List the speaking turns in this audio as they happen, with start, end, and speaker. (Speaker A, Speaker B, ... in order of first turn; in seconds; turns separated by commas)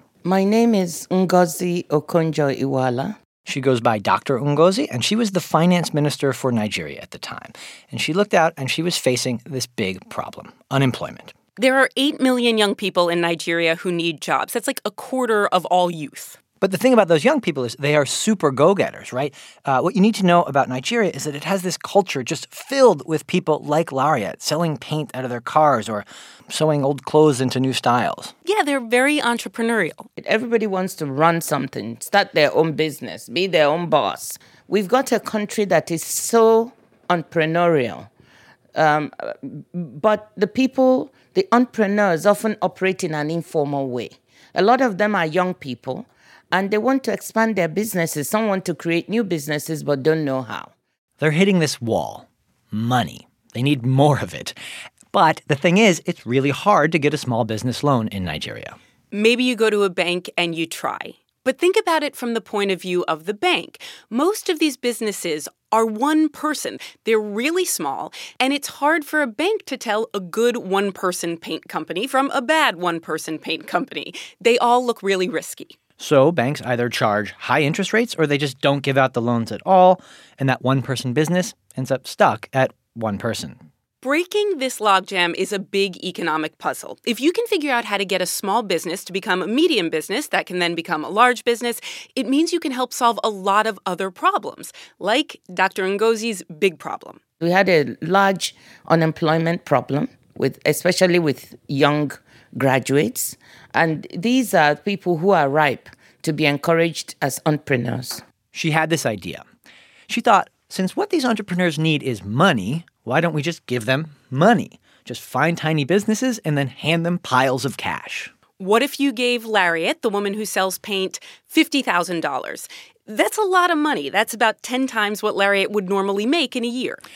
Speaker A: 0.2-3.1, Speaker B: 3.5-11.3, Speaker C: 11.6-16.4, Speaker B: 16.6-28.3, Speaker C: 28.4-30.0, Speaker A: 30.2-38.1, Speaker A: 38.7-50.7, Speaker B: 51.2-54.5, Speaker B: 55.1-58.8, Speaker C: 59.1-75.7, Speaker B: 76.0-83.6, Speaker C: 84.0-97.2, Speaker A: 97.4-108.2, Speaker B: 108.5-109.4, Speaker B: 110.1-118.3, Speaker C: 118.6-127.0